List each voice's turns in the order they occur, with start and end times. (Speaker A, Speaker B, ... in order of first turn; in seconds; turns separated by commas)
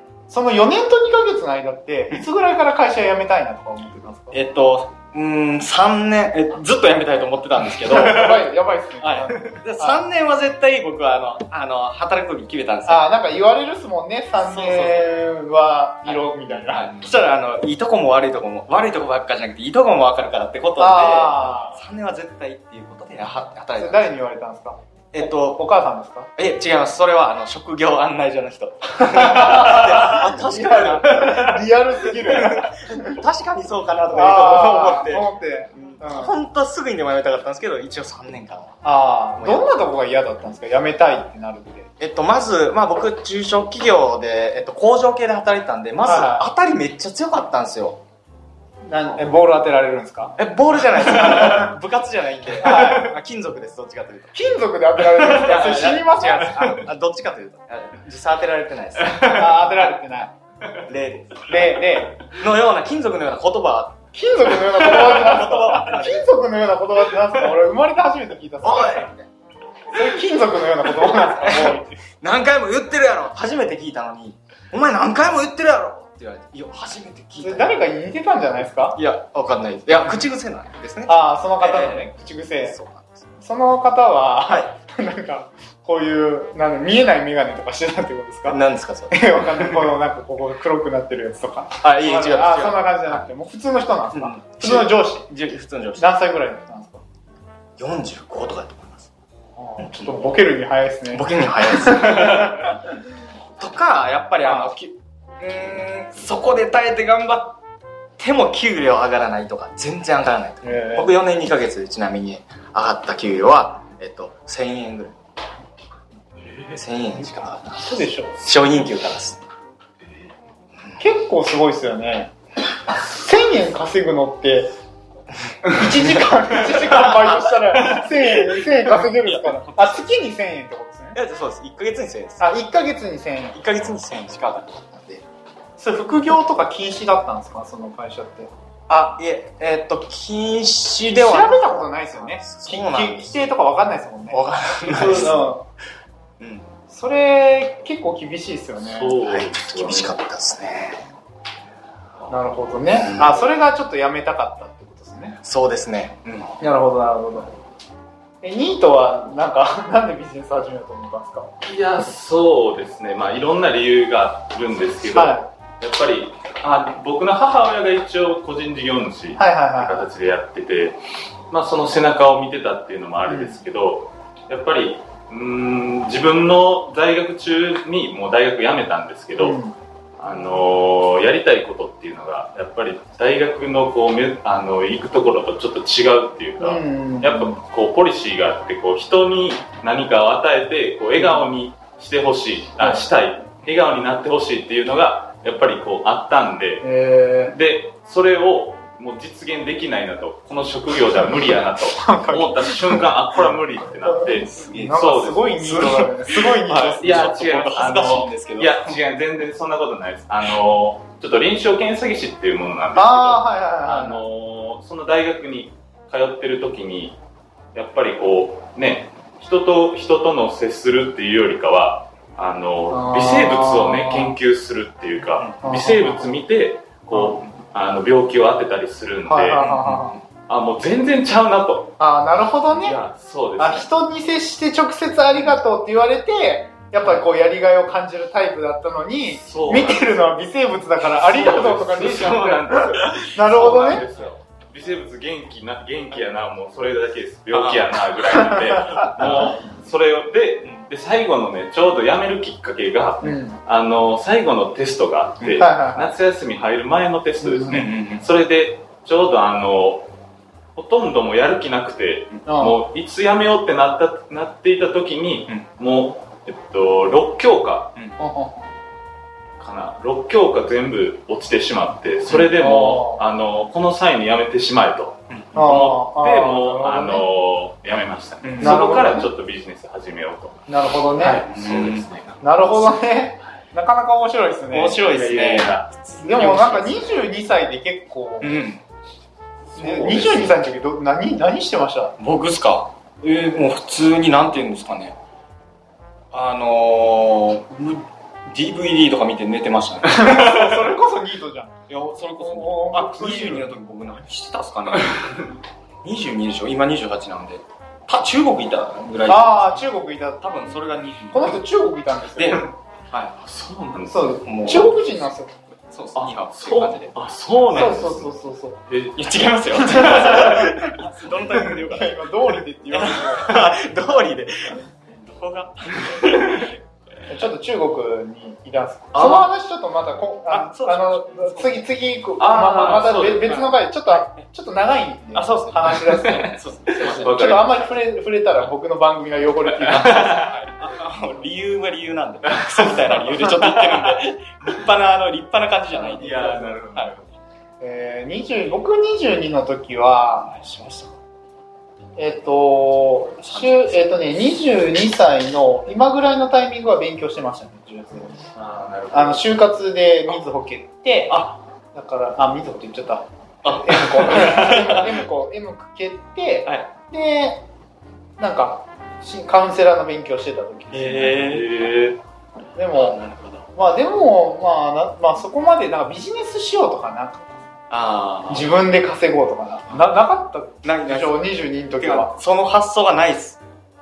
Speaker A: 0.3-4.4, Speaker B: 4.3-13.1, Speaker A: 7.8-10.0, Speaker A: 12.9-17.0, Speaker B: 14.4-15.1, Speaker B: 16.0-24.1, Speaker A: 20.8-21.8, Speaker A: 23.8-26.3, Speaker B: 25.1-25.6, Speaker B: 26.4-31.5, Speaker A: 29.1-33.2, Speaker C: 31.2-31.5, Speaker B: 32.1-38.8, Speaker A: 34.1-36.4, Speaker A: 38.8-41.9, Speaker B: 39.4-39.7, Speaker B: 42.0-48.0, Speaker A: 46.0-46.5, Speaker A: 48.9-50.4, Speaker B: 49.1-49.3, Speaker B: 50.4-54.4, Speaker A: 52.6-53.1, Speaker A: 54.3-56.9, Speaker B: 55.2-59.4, Speaker C: 59.1-59.5, Speaker A: 59.2-60.3, Speaker B: 60.9-66.3, Speaker A: 61.5-62.3, Speaker A: 64.1-69.1, Speaker B: 68.6-69.3, Speaker A: 69.9-71.9, Speaker B: 71.4-77.9, Speaker A: 77.4-79.0, Speaker B: 78.9-83.3, Speaker A: 81.1-82.8, Speaker A: 83.4-95.3, Speaker B: 84.5-84.7, Speaker B: 88.5-89.9, Speaker B: 91.8-93.3, Speaker B: 94.1-96.1, Speaker A: 96.0-97.0, Speaker B: 97.8-99.1, Speaker A: 99.6-102.7, Speaker B: 99.8-100.1, Speaker B: 101.1-102.7, Speaker B: 103.6-107.6, Speaker A: 104.4-104.7, Speaker B: 108.2-115.2, Speaker A: 110.6-111.2, Speaker C: 116.4-116.8, Speaker B: 116.7-119.5, Speaker A: 117.2-118.4, Speaker A: 121.0-122.3, Speaker A: 122.9-124.8, Speaker A: 125.6-131.2, Speaker B: 126.1-127.9, Speaker B: 128.9-130.2, Speaker B: 131.1-132.5, Speaker A: 132.4-133.6, Speaker B: 133.5-135.2, Speaker A: 135.8-138.5, Speaker B: 138.9-143.5, Speaker A: 141.1-145.7, Speaker B: 144.3-145.5, Speaker B: 146.4-146.7, Speaker A: 146.9-149.2, Speaker C: 148.8-150.2, Speaker B: 149.2-151.1, Speaker A: 152.3-155.4, Speaker B: 152.9-153.5, Speaker B: 155.4-156.6, Speaker A: 156.6-157.5, Speaker A: 158.4-161.5, Speaker C: 161.6-171.0, Speaker A: 165.1-165.5, Speaker A: 169.4-170.1, Speaker C: 171.5-179.6, Speaker A: 173.3-173.6, Speaker A: 179.4-179.8, Speaker C: 180.2-196.9, Speaker A: 186.6-187.6, Speaker A: 191.2-191.5, Speaker A: 192.8-193.1, Speaker A: 196.8-197.6, Speaker C: 197.4-205.9, Speaker A: 201.9-203.1, Speaker A: 204.1-207.1, Speaker B: 204.3-205.1, Speaker B: 205.6-209.0, Speaker C: 207.0-217.2, Speaker A: 212.9-214.2, Speaker C: 217.7-229.6, Speaker A: 222.9-224.4, Speaker A: 225.6-226.3, Speaker A: 229.3-230.2, Speaker B: 229.6-230.2, Speaker C: 230.5-231.9, Speaker A: 232.0-233.0, Speaker C: 232.7-233.9, Speaker A: 233.6-244.0, Speaker C: 239.3-240.4, Speaker C: 241.0-260.1, Speaker B: 247.5-248.0, Speaker A: 249.0-249.4, Speaker B: 249.2-249.6, Speaker A: 253.2-253.6, Speaker A: 255.6-256.2, Speaker A: 257.4-257.9, Speaker B: 257.7-258.3, Speaker C: 260.8-268.0, Speaker A: 262.4-262.8, Speaker A: 268.2-268.7, Speaker C: 269.6-282.7, Speaker A: 272.5-273.2, Speaker A: 275.6-277.3, Speaker B: 278.4-278.8, Speaker A: 278.6-279.3, Speaker A: 280.7-281.5, Speaker B: 281.5-282.1, Speaker A: 282.4-285.1, Speaker B: 284.7-287.2, Speaker C: 285.1-285.9, Speaker A: 286.2-288.6, Speaker B: 288.4-288.8, Speaker B: 289.8-290.6, Speaker A: 289.8-292.2, Speaker B: 292.2-295.2, Speaker B: 296.3-300.6, Speaker A: 300.1-301.7, Speaker B: 301.9-305.3, Speaker A: 302.4-303.7, Speaker B: 306.0-309.9, Speaker A: 309.2-312.7, Speaker B: 310.4-311.6, Speaker B: 312.4-313.4, Speaker C: 313.4-314.4, Speaker A: 314.1-315.5, Speaker B: 314.4-315.2, Speaker B: 315.9-317.2, Speaker C: 316.2-318.3, Speaker A: 317.7-318.8, Speaker C: 318.9-320.7, Speaker B: 319.2-326.7, Speaker A: 320.1-320.7, Speaker A: 321.6-323.8, Speaker A: 327.3-340.5, Speaker C: 329.1-329.4, Speaker B: 329.2-329.5, Speaker B: 330.5-331.9, Speaker C: 332.4-333.7, Speaker B: 335.3-337.8, Speaker C: 336.1-337.7, Speaker C: 339.9-340.6, Speaker B: 340.2-347.1, Speaker C: 343.5-344.1, Speaker A: 345.9-346.8, Speaker C: 346.1-347.2, Speaker A: 347.8-350.5, Speaker B: 350.4-351.2, Speaker A: 352.2-358.4, Speaker B: 353.4-354.1, Speaker C: 358.5-359.5, Speaker A: 359.1-367.6, Speaker B: 361.3-361.6, Speaker B: 363.6-365.2, Speaker B: 366.6-366.9, Speaker A: 368.4-371.5, Speaker B: 370.9-371.8, Speaker C: 371.4-372.2, Speaker A: 372.8-373.2, Speaker B: 372.9-373.7, Speaker A: 373.7-377.7, Speaker B: 377.9-378.8, Speaker A: 378.5-382.4, Speaker B: 380.8-383.6